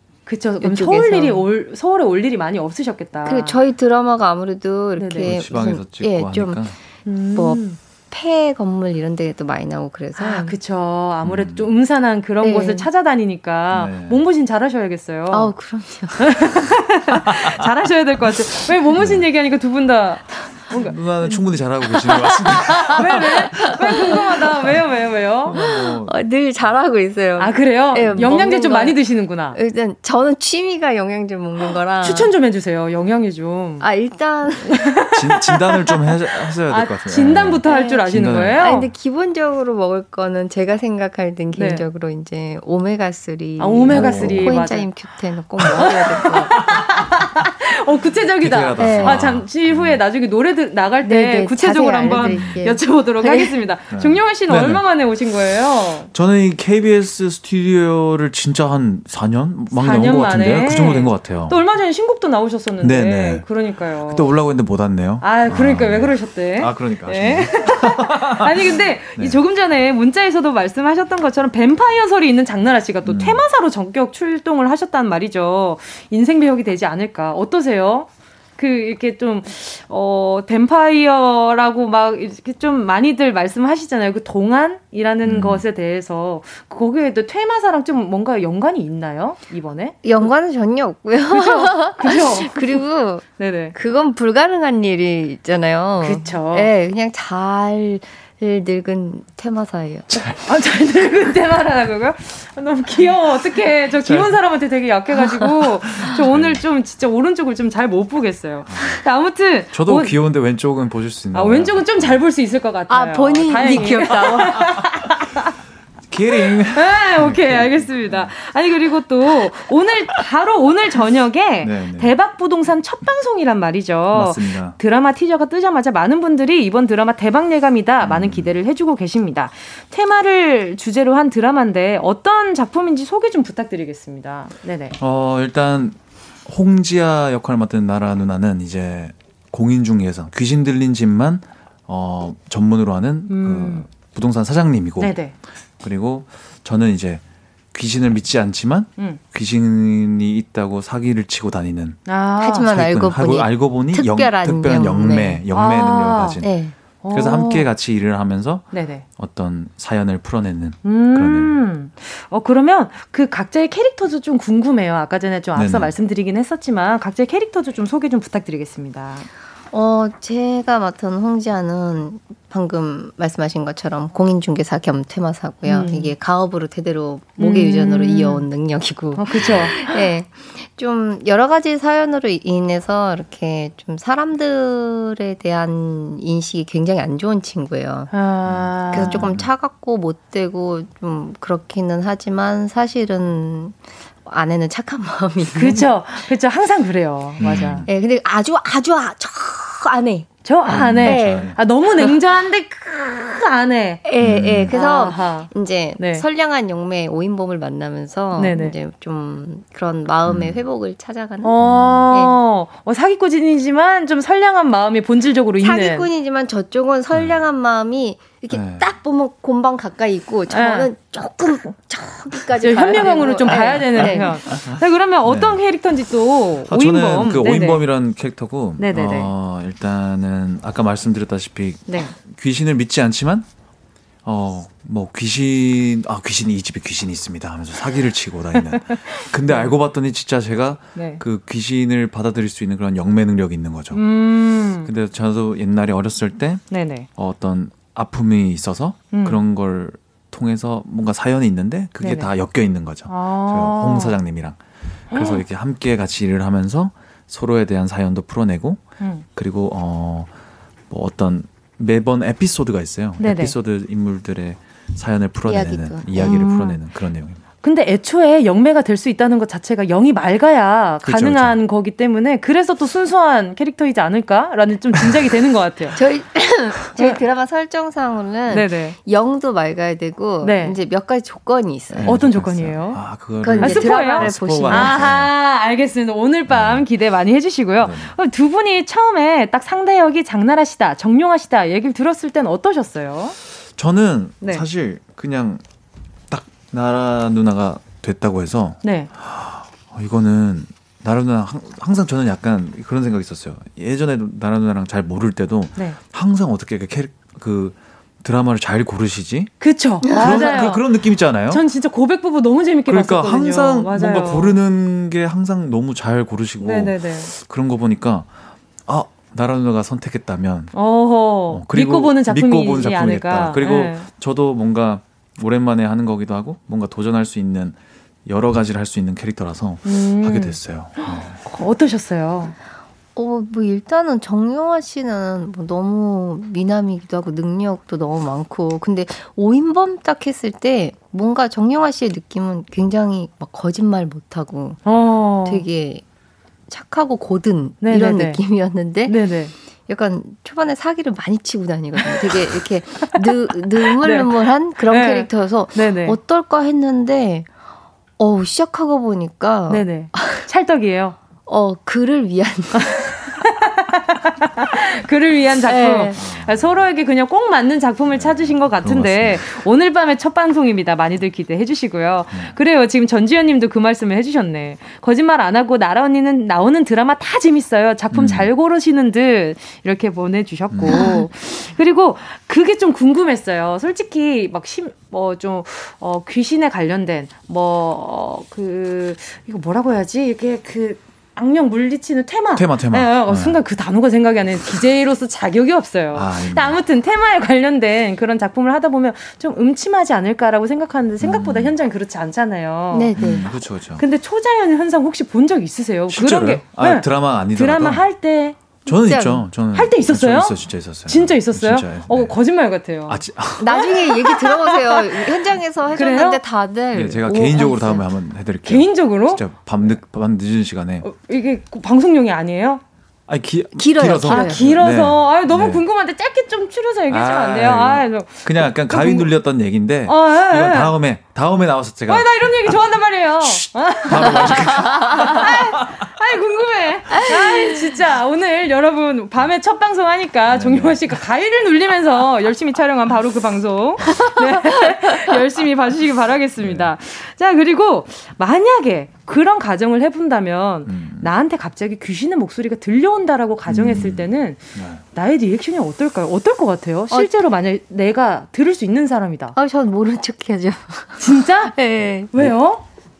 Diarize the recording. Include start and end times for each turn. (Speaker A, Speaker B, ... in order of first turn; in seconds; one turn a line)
Speaker A: 0.3-3.6
Speaker B: 0.6-1.4
Speaker B: 3.2-6.6
Speaker A: 5.0-5.3
Speaker C: 5.2-6.8
Speaker A: 7.0-7.8
Speaker B: 7.3-10.6
Speaker A: 10.2-15.5
Speaker C: 11.2-11.7
Speaker B: 12.4-12.9
Speaker C: 13.7-14.2
Speaker B: 15.3-16.5
Speaker A: 16.2-21.0
Speaker C: 19.0-19.2
Speaker C: 20.8-23.8
Speaker A: 22.4-25.6
Speaker B: 22.7-24.5
Speaker C: 25.4-26.1
Speaker B: 25.5-29.0
Speaker A: 27.4-29.6
Speaker B: 29.5-32.3
Speaker A: 32.0-33.9
Speaker B: 33.8-34.9
Speaker A: 34.7-35.6
Speaker C: 35.1-38.6
Speaker A: 36.7-38.9
Speaker B: 37.6-46.5
Speaker A: 41.5-41.8
Speaker A: 43.6-44.9
Speaker C: 43.9-44.5
Speaker A: 45.6-56.1
Speaker C: 48.4-50.0
Speaker B: 48.8-49.3
Speaker B: 51.0-53.6
Speaker C: 53.9-54.8
Speaker C: 56.1-61.6
Speaker A: 59.7-64.3
Speaker C: 62.8-63.4
Speaker C: 64.1-69.4
Speaker A: 65.2-90.2
Speaker C: 73.0-73.4
Speaker C: 85.2-85.6
Speaker B: 90.0-100.2
Speaker A: 91.3-92.8
Speaker A: 93.4-93.7
Speaker A: 96.0-96.7
Speaker A: 100.4-110.2
Speaker C: 104.0-104.3
Speaker C: 106.0-106.6
Speaker C: 108.7-109.0
Speaker C: 109.7-112.2
Speaker A: 111.3-115.5
Speaker B: 112.9-114.8
Speaker C: 116.1-118.3
Speaker A: 116.7-135.0
Speaker C: 121.6-122.1
Speaker C: 124.1-124.8
Speaker C: 128.0-128.5
Speaker C: 135.0-145.2
Speaker A: 143.3-143.9
Speaker A: 145.0-145.3
Speaker C: 145.8-147.2
Speaker C: 147.7-152.0
Speaker A: 152.1-152.7
Speaker B: 152.4-155.4
Speaker C: 152.7-156.5
Speaker A: 155.5-156.4
Speaker B: 156.4-156.7
Speaker A: 157.0-157.7
Speaker C: 157.1-161.6
Speaker A: 158.7-159.0
Speaker A: 160.8-169.3
Speaker C: 165.5-165.9
Speaker B: 169.7-188.1
Speaker A: 175.7-176.1
Speaker A: 177.4-178.4
Speaker A: 179.1-180.0
Speaker A: 188.1-189.2
Speaker C: 188.5-189.5
Speaker B: 188.9-195.9
Speaker A: 195.5-197.8
Speaker C: 197.4-197.9
Speaker B: 197.8-201.6
Speaker A: 200.4-204.0
Speaker C: 200.7-201.6
Speaker B: 204.0-211.6
Speaker C: 204.2-204.7
Speaker A: 204.7-206.2
Speaker A: 208.3-208.7
Speaker C: 210.2-210.6
Speaker A: 211.4-216.1
Speaker C: 211.6-212.1
Speaker B: 212.1-212.4
Speaker B: 215.6-224.4
Speaker C: 217.1-217.4
Speaker C: 218.5-218.9
Speaker A: 220.5-220.9
Speaker A: 222.6-227.8
Speaker C: 224.0-224.7
Speaker C: 225.2-225.6
Speaker C: 226.7-233.4
Speaker A: 228.8-229.3
Speaker A: 231.9-232.1
Speaker C: 234.2-244.0
Speaker A: 238.9-239.7
Speaker A: 240.9-241.2
Speaker A: 243.9-244.9
Speaker C: 244.8-246.6
Speaker A: 246.7-247.1
Speaker C: 247.2-254.6
Speaker A: 249.1-249.4
Speaker A: 252.0-252.3
Speaker A: 253.1-254.2
Speaker C: 255.1-258.8
Speaker A: 255.1-255.4
Speaker A: 259.0-259.2
Speaker C: 259.3-260.3
Speaker C: 260.9-267.4
Speaker A: 263.2-263.5
Speaker B: 265.4-266.8
Speaker A: 266.2-266.6
Speaker A: 267.6-276.0
Speaker C: 271.0-271.6
Speaker B: 275.9-282.2
Speaker A: 278.5-278.9
Speaker A: 280.4-280.8
Speaker C: 281.9-285.3
Speaker A: 282.0-283.0
Speaker B: 283.4-285.2
Speaker A: 283.6-293.4
Speaker C: 286.5-286.9
Speaker C: 287.8-288.1
Speaker C: 293.8-295.6
Speaker C: 296.3-309.5
Speaker A: 298.8-299.1
Speaker A: 309.6-310.8
Speaker B: 310.1-310.6
Speaker C: 310.1-311.6
Speaker A: 311.5-314.6
Speaker C: 312.9-318.3
Speaker A: 316.6-317.3
Speaker C: 318.9-320.7
Speaker A: 320.7-324.1
Speaker C: 321.5-331.4
Speaker A: 329.8-332.5
Speaker B: 333.1-344.8
Speaker A: 344.8-345.6
Speaker B: 345.4-346.0
Speaker B: 346.7-349.2
Speaker A: 347.8-348.4
Speaker A: 349.1-349.5
Speaker B: 349.9-357.5
Speaker A: 353.8-356.2
Speaker B: 358.2-360.4
Speaker A: 359.7-361.2
Speaker B: 361.5-363.1
Speaker A: 362.7-403.1
Speaker B: 365.6-366.2
Speaker C: 366.1-366.8
Speaker C: 368.1-369.4
Speaker C: 378.1-378.5
Speaker C: 380.7-381.0
Speaker B: 380.9-381.2
Speaker C: 392.5-393.6
Speaker C: 396.1-396.8
Speaker C: 401.2-401.7
Speaker B: 402.9-403.5
Speaker C: 403.2-404.0
Speaker A: 404.0-408.6
Speaker C: 406.1-408.0
Speaker B: 408.9-409.4
Speaker C: 408.9-412.4
Speaker A: 409.7-410.5
Speaker A: 411.1-415.3
Speaker C: 413.1-413.7
Speaker B: 413.6-418.0
Speaker A: 415.9-416.4
Speaker C: 416.9-421.1
Speaker A: 418.6-419.4
Speaker A: 421.0-422.8
Speaker C: 423.3-425.8
Speaker B: 423.8-424.6
Speaker A: 424.3-429.3
Speaker C: 427.1-432.4
Speaker A: 430.1-430.9
Speaker A: 432.1-454.6
Speaker C: 433.4-435.9
Speaker B: 437.3-437.9
Speaker C: 440.5-441.2
Speaker B: 444.2-444.5
Speaker C: 446.6-446.9
Speaker C: 450.9-451.3
Speaker C: 453.7-455.0
Speaker A: 455.1-459.6
Speaker B: 459.5-462.3
Speaker A: 461.2-461.8
Speaker A: 462.3-462.8